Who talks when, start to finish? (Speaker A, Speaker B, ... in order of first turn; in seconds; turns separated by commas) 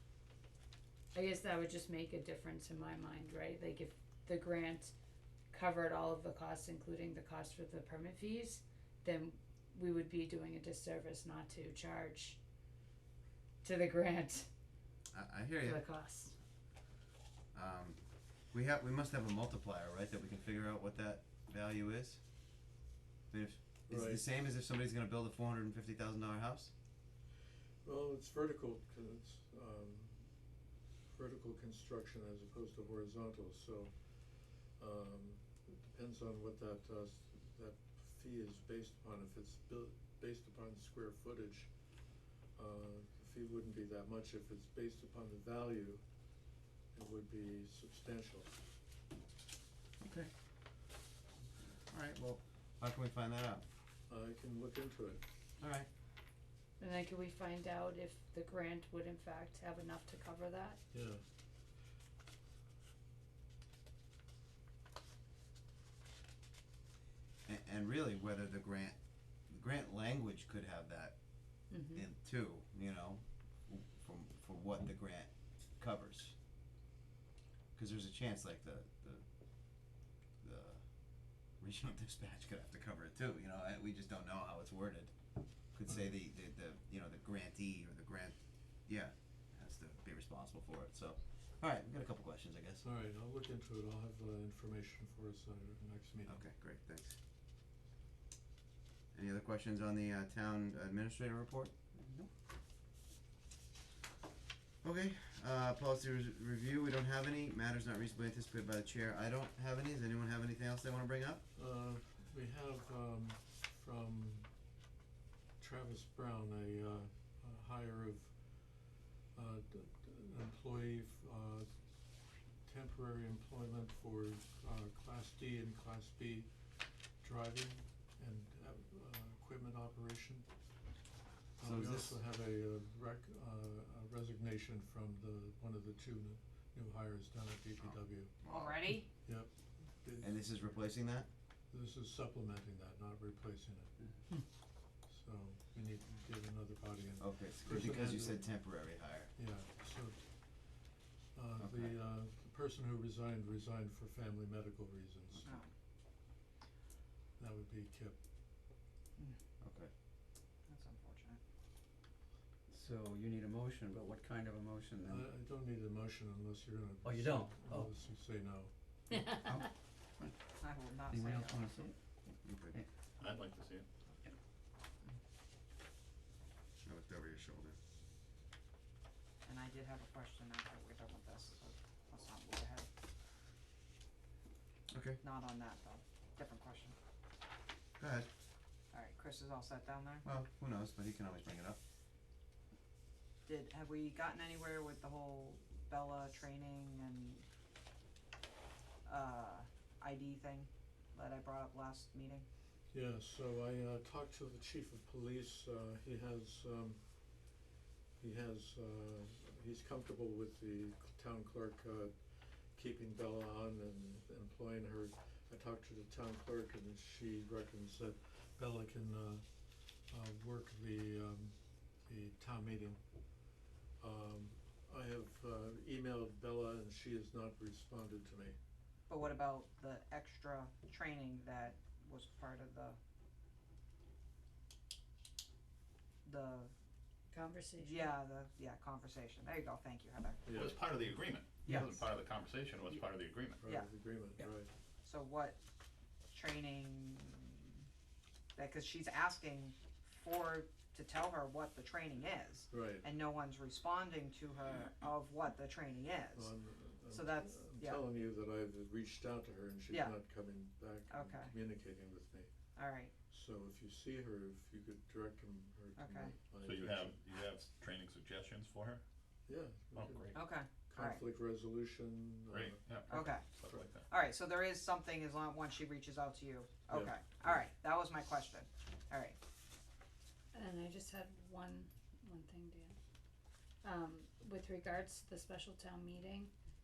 Speaker A: 1.1-4.9, Speaker A: 5.5-12.4, Speaker A: 13.6-14.5, Speaker B: 15.1-15.8, Speaker A: 15.6-16.4, Speaker B: 17.5-18.0, Speaker B: 18.5-22.2, Speaker B: 23.3-26.7, Speaker C: 23.9-24.2, Speaker C: 27.8-30.2, Speaker C: 31.1-33.9, Speaker C: 34.8-41.7, Speaker C: 42.5-46.0, Speaker C: 46.9-48.5, Speaker D: 50.0-50.3, Speaker B: 51.9-53.6, Speaker C: 54.1-55.2, Speaker B: 55.6-55.9, Speaker A: 56.8-60.8, Speaker C: 60.9-61.2, Speaker B: 67.5-69.0, Speaker B: 69.5-71.1, Speaker A: 71.7-72.0, Speaker B: 71.7-76.3, Speaker B: 77.7-79.2, Speaker B: 80.4-80.8, Speaker B: 81.6-85.1, Speaker B: 85.7-88.3, Speaker B: 88.9-92.8, Speaker C: 92.8-96.4, Speaker B: 96.3-97.2, Speaker B: 99.1-101.7, Speaker D: 101.9-102.3, Speaker B: 104.8-111.4, Speaker C: 111.5-114.5, Speaker C: 115.6-118.3, Speaker C: 119.3-121.7, Speaker C: 122.7-126.5, Speaker C: 127.2-130.5, Speaker C: 131.6-138.3, Speaker B: 131.6-132.1, Speaker B: 138.4-138.7, Speaker E: 138.4-139.1, Speaker C: 139.2-140.4, Speaker B: 140.2-141.3, Speaker C: 141.7-143.9, Speaker C: 145.1-148.5, Speaker B: 147.2-149.3, Speaker C: 149.3-150.2, Speaker C: 151.3-155.6, Speaker B: 151.6-151.9, Speaker E: 155.4-155.7, Speaker C: 157.4-158.2, Speaker B: 159.6-159.9, Speaker E: 160.7-161.4, Speaker D: 162.7-165.3, Speaker C: 165.0-168.7, Speaker D: 167.0-167.9, Speaker D: 169.2-169.7, Speaker E: 170.6-171.8, Speaker D: 171.1-171.9, Speaker B: 172.4-172.8, Speaker F: 173.2-173.8, Speaker B: 176.8-177.8, Speaker E: 179.4-182.9, Speaker B: 184.9-185.2, Speaker E: 185.2-186.9, Speaker B: 188.0-188.3, Speaker E: 188.9-190.2, Speaker B: 190.2-191.8, Speaker E: 193.4-197.4, Speaker E: 199.0-202.4, Speaker C: 202.9-207.0, Speaker C: 208.2-212.1, Speaker C: 212.7-219.5, Speaker C: 220.1-223.0, Speaker C: 224.0-228.6, Speaker E: 229.1-233.0, Speaker E: 236.2-236.7, Speaker A: 237.3-238.1, Speaker E: 237.8-240.4, Speaker C: 240.4-240.9, Speaker F: 240.5-243.6, Speaker E: 241.6-241.9, Speaker C: 243.6-244.7, Speaker E: 243.6-243.9, Speaker E: 245.0-245.6, Speaker E: 246.3-247.7, Speaker E: 248.5-256.6, Speaker C: 252.7-253.0, Speaker C: 256.3-262.5, Speaker E: 257.1-258.0, Speaker E: 259.9-260.1, Speaker E: 261.1-261.5, Speaker E: 262.7-263.1, Speaker C: 263.3-267.1, Speaker E: 265.9-266.3, Speaker F: 266.6-269.0, Speaker C: 269.5-273.8, Speaker F: 269.9-270.5, Speaker E: 270.3-271.2, Speaker F: 272.5-274.1, Speaker E: 273.1-273.4, Speaker E: 274.1-279.4, Speaker C: 276.9-277.5, Speaker A: 280.5-283.0, Speaker A: 283.8-286.5